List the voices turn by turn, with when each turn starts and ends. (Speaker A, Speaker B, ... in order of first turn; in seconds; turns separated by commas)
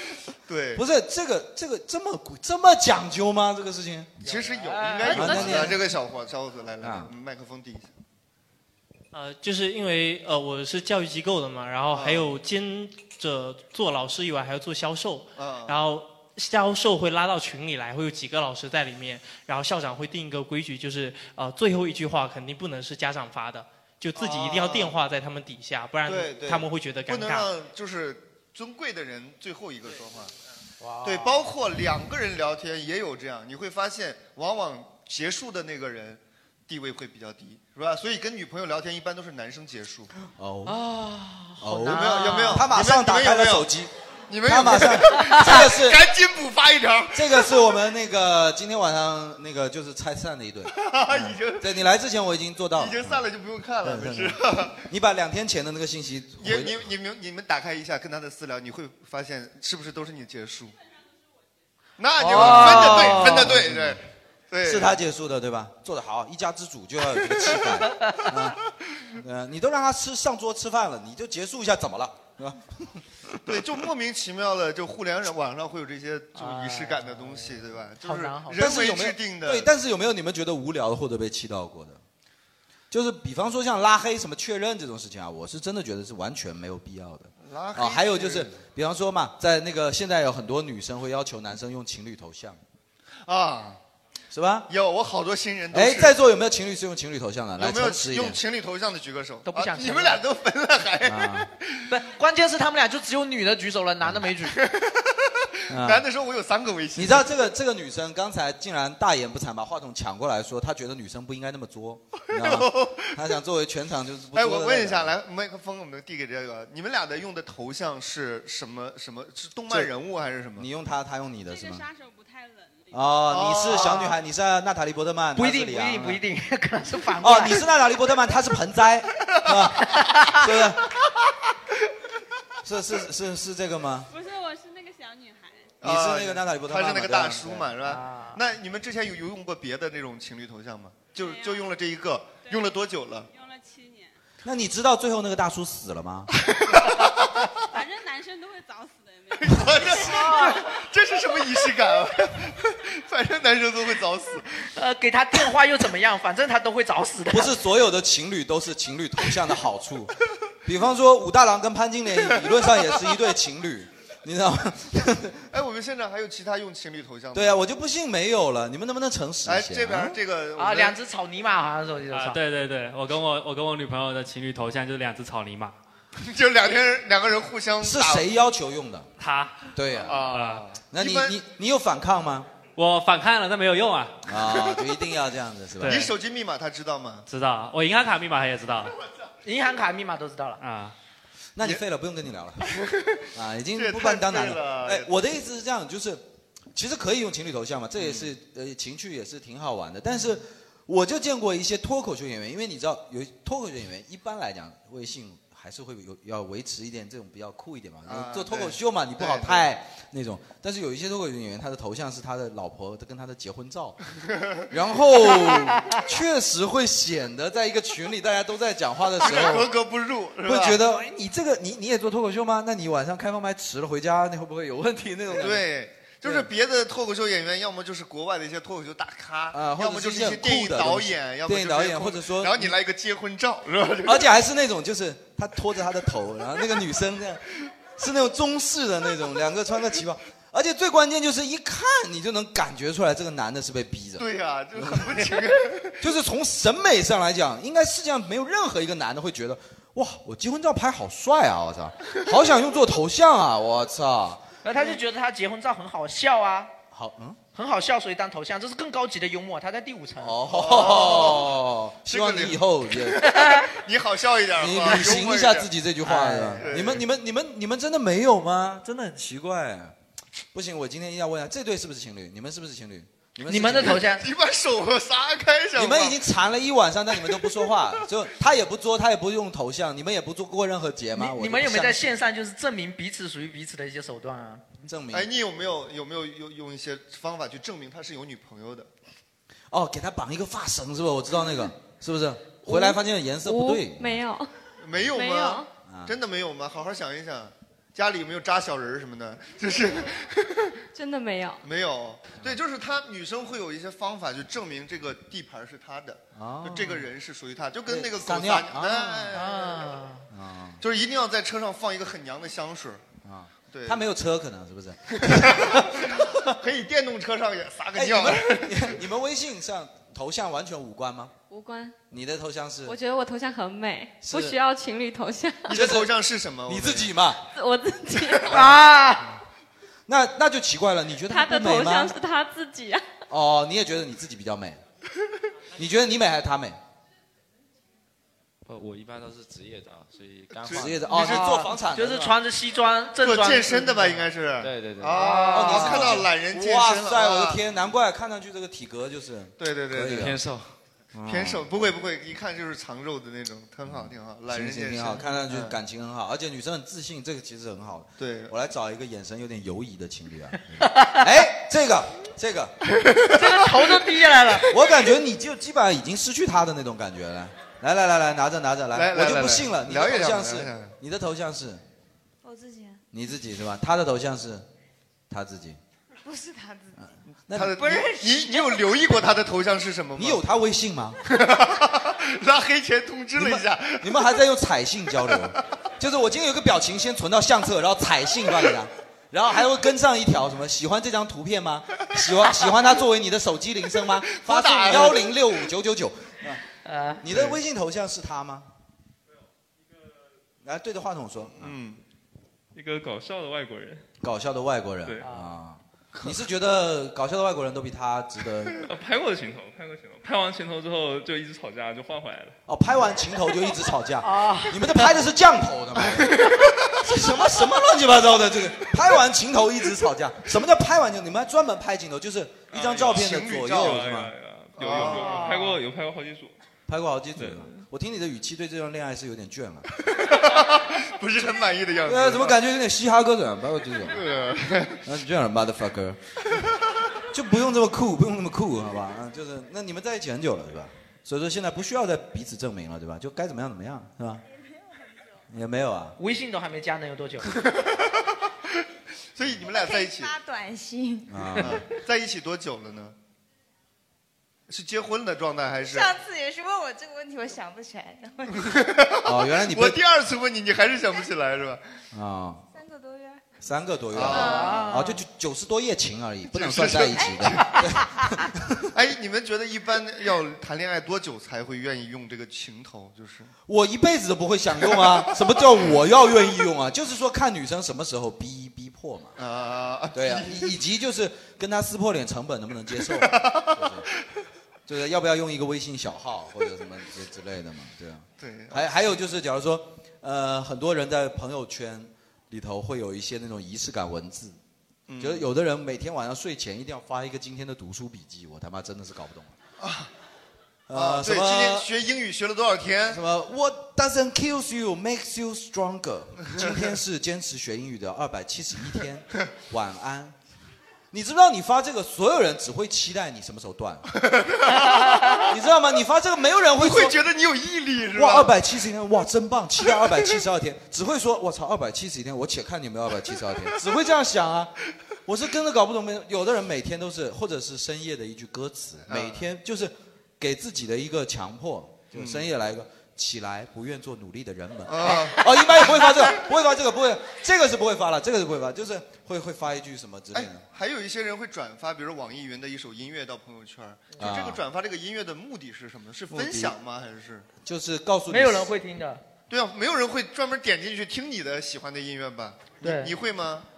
Speaker A: 0.5-0.8, Speaker B: 0.7-4.2, Speaker A: 4.2-7.9, Speaker C: 4.2-5.6, Speaker B: 5.0-5.8, Speaker B: 6.8-7.1, Speaker D: 9.1-27.5, Speaker A: 11.9-12.3, Speaker A: 15.4-15.8, Speaker A: 24.1-25.0, Speaker A: 26.1-30.3, Speaker C: 30.8-31.4, Speaker A: 31.0-40.1, Speaker B: 40.3-40.8, Speaker C: 40.7-42.7, Speaker B: 41.6-43.9, Speaker A: 41.9-43.7, Speaker A: 44.3-47.5, Speaker B: 44.4-46.1, Speaker B: 47.1-53.2, Speaker A: 50.7-51.8, Speaker A: 52.7-54.8, Speaker B: 53.8-56.9, Speaker A: 56.4-60.7, Speaker A: 62.0-65.0, Speaker C: 62.2-63.5, Speaker B: 62.2-64.0, Speaker B: 64.6-68.6, Speaker C: 68.0-68.2, Speaker B: 69.1-73.6, Speaker A: 73.5-79.7, Speaker C: 76.3-78.7, Speaker B: 78.5-82.0, Speaker B: 82.9-92.6, Speaker A: 87.4-88.6, Speaker A: 93.2-93.8, Speaker B: 94.3-94.7, Speaker A: 94.7-96.2, Speaker B: 95.7-98.4, Speaker A: 97.6-101.8, Speaker C: 99.4-100.2, Speaker B: 101.0-101.5, Speaker C: 101.9-104.6, Speaker A: 104.5-107.4, Speaker B: 105.7-106.0, Speaker B: 106.9-115.1, Speaker A: 112.3-113.3, Speaker A: 114.3-120.7, Speaker B: 120.6-121.8, Speaker E: 121.5-123.0, Speaker B: 122.9-126.2, Speaker A: 123.3-124.2, Speaker C: 123.7-124.2, Speaker C: 125.3-127.6, Speaker B: 127.2-130.9, Speaker C: 129.9-130.4, Speaker B: 132.6-134.1, Speaker E: 134.1-135.8, Speaker A: 135.8-143.3, Speaker B: 135.8-137.7, Speaker C: 137.8-138.4, Speaker E: 141.1-141.7, Speaker E: 142.4-142.7, Speaker E: 143.3-144.2, Speaker B: 144.4-146.3, Speaker A: 146.5-147.2, Speaker E: 147.6-150.3, Speaker A: 149.4-154.5, Speaker C: 150.0-150.7, Speaker C: 154.7-157.6, Speaker B: 157.3-165.4, Speaker A: 165.5-167.7, Speaker B: 167.3-170.2, Speaker A: 169.4-170.9, Speaker C: 170.6-172.4, Speaker F: 172.1-175.8, Speaker A: 176.2-178.3, Speaker B: 177.8-179.1, Speaker F: 179.2-180.6, Speaker B: 179.7-180.3, Speaker A: 180.0-181.4, Speaker B: 180.9-182.5, Speaker F: 182.8-184.3, Speaker B: 184.2-186.1, Speaker A: 184.5-184.8, Speaker F: 185.8-186.1, Speaker A: 185.8-187.2, Speaker F: 187.3-188.9, Speaker C: 189.4-190.6, Speaker F: 190.6-190.9, Speaker B: 191.6-192.7, Speaker A: 192.6-195.1, Speaker B: 193.3-214.0, Speaker A: 208.1-209.7, Speaker B: 214.7-219.7, Speaker A: 219.2-220.8, Speaker B: 220.4-225.7, Speaker A: 225.3-234.3, Speaker B: 226.2-226.5, Speaker B: 229.5-232.8, Speaker B: 234.0-245.5, Speaker A: 244.2-246.1, Speaker B: 246.0-254.5, Speaker C: 254.6-256.7, Speaker B: 256.9-257.4, Speaker C: 257.5-260.9, Speaker B: 260.2-263.3, Speaker A: 260.5-265.7, Speaker C: 263.2-263.7, Speaker B: 264.6-269.9, Speaker C: 266.0-266.7, Speaker A: 266.6-267.0, Speaker B: 270.5-274.1, Speaker C: 273.5-274.3, Speaker A: 273.7-276.2, Speaker B: 275.7-282.1, Speaker C: 281.1-284.6, Speaker B: 284.8-285.3, Speaker A: 285.1-288.9, Speaker B: 289.7-294.2, Speaker G: 292.6-294.5, Speaker A: 294.8-300.8, Speaker G: 295.1-295.7, Speaker B: 295.9-296.1, Speaker G: 300.9-301.6, Speaker A: 301.6-309.8, Speaker B: 306.3-307.1, Speaker B: 307.9-309.4, Speaker C: 309.3-310.3, Speaker B: 310.3-310.8, Speaker A: 310.8-313.0, Speaker B: 313.2-316.3, Speaker A: 313.7-314.1, Speaker A: 315.1-318.9, Speaker B: 317.9-321.3, Speaker G: 321.5-321.9, Speaker B: 322.1-323.0, Speaker G: 322.9-325.7, Speaker B: 324.2-324.6, Speaker A: 325.7-327.1, Speaker B: 325.7-326.1, Speaker B: 326.6-327.4, Speaker G: 327.5-328.7, Speaker C: 328.5-329.3, Speaker B: 330.1-332.2, Speaker G: 331.3-333.1, Speaker B: 333.3-334.8, Speaker B: 335.8-336.8, Speaker H: 338.6-341.3, Speaker A: 340.6-341.4, Speaker B: 340.7-342.4, Speaker C: 341.1-344.1, Speaker A: 343.2-347.6, Speaker H: 344.6-345.5, Speaker C: 345.1-346.2, Speaker B: 345.5-350.4, Speaker A: 349.6-350.2, Speaker H: 350.1-350.7, Speaker B: 351.1-351.7, Speaker A: 351.2-355.8, Speaker B: 353.9-362.8, Speaker A: 358.2-358.5, Speaker C: 360.8-361.2, Speaker C: 363.2-364.7, Speaker B: 364.6-371.8, Speaker A: 368.9-370.9, Speaker I: 372.4-373.0, Speaker B: 373.1-374.7, Speaker B: 375.3-375.8, Speaker I: 376.2-377.0, Speaker B: 377.0-378.1, Speaker A: 377.5-380.4, Speaker I: 377.9-378.9, Speaker B: 380.1-381.2, Speaker A: 381.2-384.2, Speaker B: 383.4-396.6, Speaker A: 385.3-385.6, Speaker A: 394.3-395.4, Speaker C: 396.8-397.2, Speaker B: 397.2-398.7, Speaker A: 397.3-397.6, Speaker B: 400.6-401.7, Speaker A: 401.6-402.0, Speaker J: 402.7-404.1, Speaker B: 404.2-408.9, Speaker C: 405.2-405.5, Speaker A: 406.2-406.4, Speaker J: 408.8-412.6, Speaker B: 412.7-424.3, Speaker C: 414.2-415.1, Speaker A: 416.2-416.5, Speaker J: 422.7-426.5, Speaker A: 423.0-424.0, Speaker A: 424.8-425.6, Speaker C: 424.8-425.8, Speaker B: 426.9-429.9, Speaker J: 427.4-427.8, Speaker A: 430.1-432.6, Speaker B: 432.1-434.3, Speaker A: 434.1-435.0, Speaker B: 435.0-436.3, Speaker B: 437.3-444.4, Speaker B: 445.5-446.1, Speaker C: 446.2-447.5, Speaker A: 449.4-450.3, Speaker I: 449.6-451.3, Speaker B: 451.3-451.8, Speaker A: 451.6-453.1, Speaker A: 454.7-456.1, Speaker I: 455.8-458.7, Speaker A: 458.6-461.8, Speaker B: 459.2-460.0, Speaker B: 462.1-462.6, Speaker I: 462.7-463.4, Speaker B: 463.6-468.9, Speaker A: 464.1-464.7, Speaker C: 464.3-465.2, Speaker A: 466.5-467.7, Speaker A: 468.9-473.5, Speaker B: 473.6-479.4, Speaker A: 474.9-475.6, Speaker A: 479.4-480.8, Speaker B: 480.1-484.1, Speaker A: 483.1-483.9, Speaker B: 484.9-494.6, Speaker A: 488.4-489.2, Speaker A: 495.1-495.5, Speaker B: 495.2-499.6, Speaker A: 499.8-500.1, Speaker B: 500.9-501.9, Speaker A: 500.9-503.2, Speaker B: 503.1-510.4, Speaker B: 511.1-514.1, Speaker A: 514.3-515.5, Speaker C: 514.8-515.5, Speaker B: 515.4-517.1, Speaker A: 516.8-518.5, Speaker B: 518.1-524.7, Speaker B: 525.2-540.6, Speaker A: 529.1-529.5, Speaker A: 532.1-532.5, Speaker A: 534.9-535.6, Speaker A: 540.3-547.5, Speaker B: 544.2-544.6, Speaker B: 546.3-546.7, Speaker B: 547.6-548.7, Speaker C: 548.3-549.2, Speaker A: 549.5-553.6, Speaker C: 552.8-553.1